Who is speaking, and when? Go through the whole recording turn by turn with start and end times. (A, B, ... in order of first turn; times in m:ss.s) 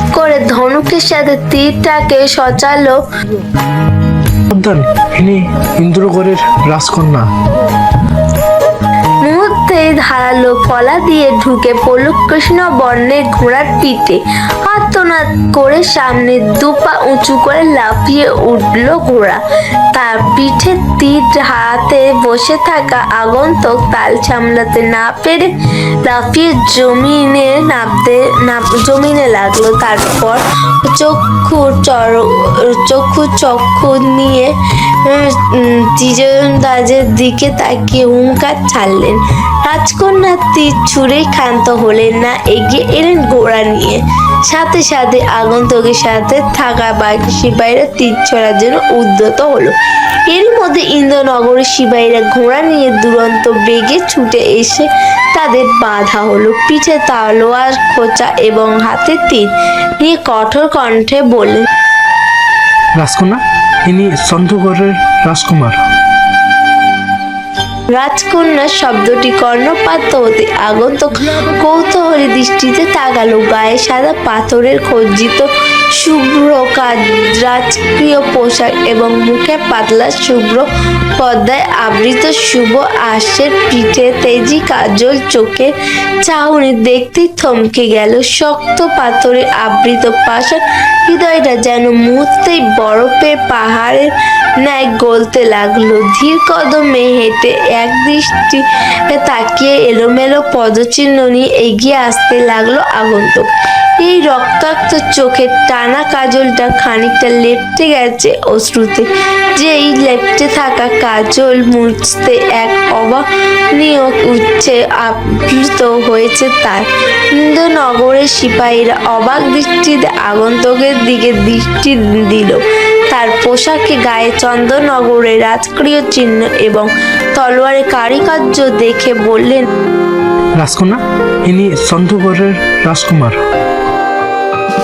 0:00.1-0:03.0 A
0:04.5-0:07.3 B
0:09.2-0:19.4 A
0:19.9-0:25.5 A
0:26.0-0:34.5 A
0:35.0-0:49.7 A
0:50.3-1:01.7 A
1:03.0-1:05.8 B
1:07.9-1:20.7 A
1:21.2-1:25.7 A
1:26.2-1:43.5 A
1:44.0-2:09.6 A
2:10.6-2:13.4 B